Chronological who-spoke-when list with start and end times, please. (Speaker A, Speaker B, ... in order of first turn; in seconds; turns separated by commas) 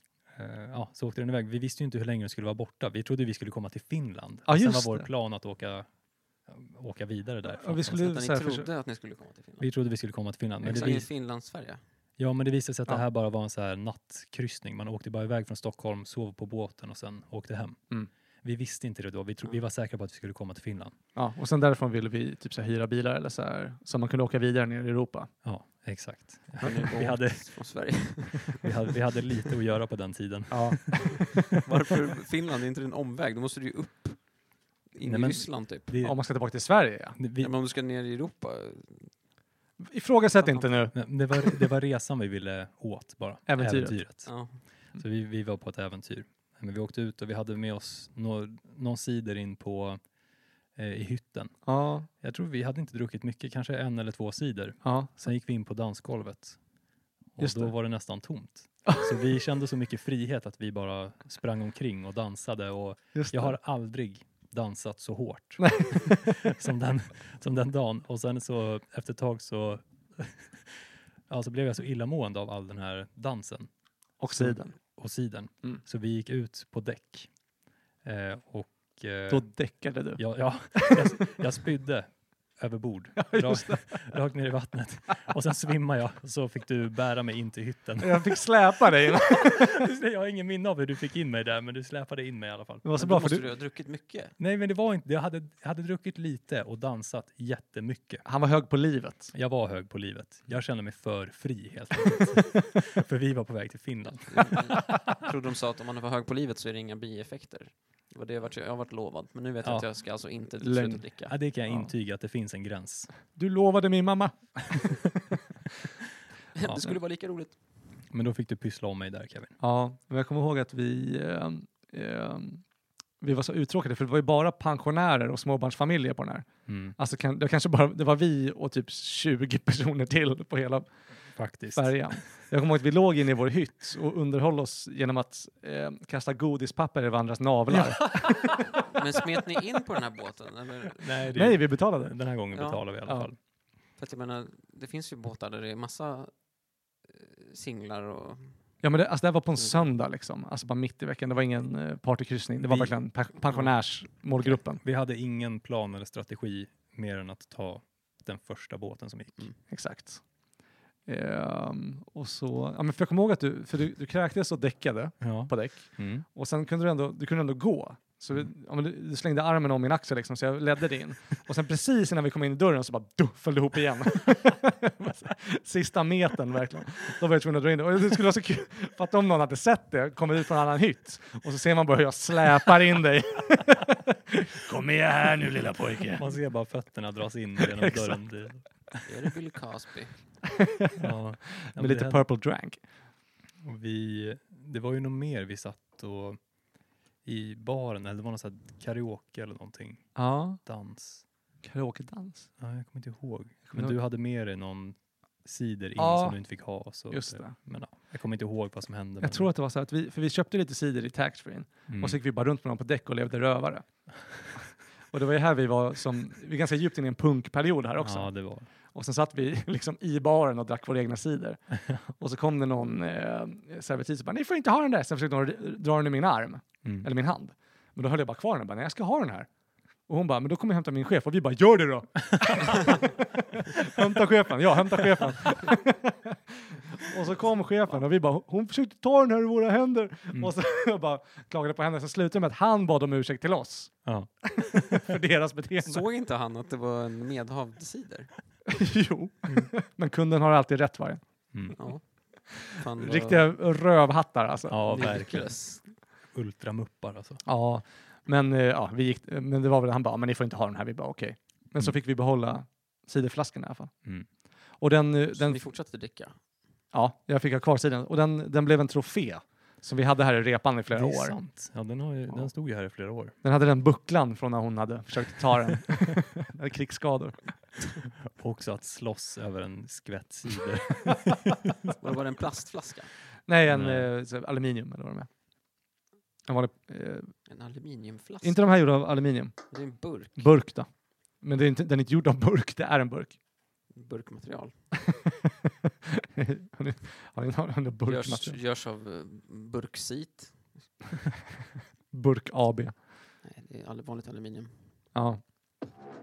Speaker A: 0.3-5.9, Speaker B: 4.5-5.1, Speaker A: 6.5-8.1, Speaker B: 7.5-8.7, Speaker C: 7.9-9.7, Speaker A: 9.6-11.1, Speaker C: 10.6-11.8, Speaker A: 12.2-20.9, Speaker B: 21.1-25.3, Speaker A: 25.4-28.0, Speaker C: 26.6-28.7, Speaker B: 26.6-27.1, Speaker A: 28.6-31.2, Speaker B: 30.5-31.4, Speaker C: 31.6-35.9, Speaker A: 35.0-36.2, Speaker B: 36.0-37.2, Speaker A: 37.2-37.5, Speaker C: 37.4-39.1, Speaker B: 39.8-41.1, Speaker C: 40.4-40.8, Speaker A: 40.9-50.0, Speaker B: 43.5-44.0, Speaker C: 44.2-44.6, Speaker A: 50.7-56.6, Speaker B: 51.6-52.1, Speaker B: 54.8-55.1, Speaker A: 57.3-73.7, Speaker B: 57.4-57.8, Speaker B: 58.9-59.1, Speaker B: 63.1-63.5, Speaker B: 65.6-66.2, Speaker B: 74.2-74.9, Speaker A: 74.3-77.3, Speaker A: 78.0-79.6, Speaker B: 79.3-81.4, Speaker A: 80.1-92.8, Speaker B: 83.2-84.1, Speaker B: 88.0-89.8, Speaker B: 92.8-93.5, Speaker C: 93.0-94.3, Speaker A: 94.4-98.2, Speaker B: 98.2-99.3, Speaker A: 99.3-105.0, Speaker C: 104.3-111.3, Speaker B: 110.6-111.9, Speaker A: 111.3-113.1, Speaker B: 113.3-115.2, Speaker C: 116.5-117.6, Speaker A: 116.6-117.0, Speaker A: 118.1-119.5, Speaker B: 119.6-122.6, Speaker B: 123.2-131.0, Speaker A: 126.7-127.0, Speaker A: 131.3-132.2, Speaker B: 131.6-138.7, Speaker A: 137.7-138.4, Speaker C: 138.9-141.3, Speaker A: 141.0-143.4, Speaker B: 141.3-142.3, Speaker C: 142.5-143.2, Speaker C: 143.9-146.5, Speaker C: 147.0-148.7, Speaker B: 148.8-154.8, Speaker C: 149.6-149.8, Speaker A: 152.6-153.0, Speaker C: 153.4-153.7, Speaker A: 154.5-159.5, Speaker B: 159.7-160.5, Speaker B: 161.1-186.3, Speaker A: 165.2-166.2, Speaker A: 186.2-189.0, Speaker B: 187.6-188.2, Speaker C: 189.1-190.4, Speaker A: 191.0-192.2, Speaker B: 191.4-192.8, Speaker A: 193.6-196.4, Speaker A: 197.2-201.2, Speaker B: 200.1-200.8, Speaker B: 201.6-202.5, Speaker A: 202.6-209.5, Speaker B: 203.6-204.0, Speaker B: 206.0-207.6, Speaker B: 209.2-229.5, Speaker A: 211.9-212.2, Speaker A: 218.0-218.7, Speaker A: 226.8-227.1, Speaker B: 230.1-246.0, Speaker A: 244.0-245.0, Speaker C: 245.8-248.3, Speaker B: 248.7-251.9, Speaker A: 251.5-252.0, Speaker C: 251.7-253.5, Speaker B: 252.6-255.1, Speaker A: 254.7-257.4, Speaker C: 254.9-255.8, Speaker B: 257.4-265.6, Speaker C: 265.3-266.5, Speaker B: 266.9-272.5, Speaker A: 270.9-273.3, Speaker B: 273.4-277.9, Speaker A: 278.2-281.7, Speaker C: 282.0-283.1, Speaker B: 283.5-285.3, Speaker A: 283.7-284.1, Speaker B: 286.4-287.5, Speaker C: 287.4-288.8, Speaker B: 288.4-293.4, Speaker C: 289.7-290.6, Speaker C: 293.9-294.9, Speaker B: 296.4-298.6, Speaker C: 298.0-301.0, Speaker B: 302.1-303.0, Speaker C: 303.4-305.0, Speaker B: 305.1-305.4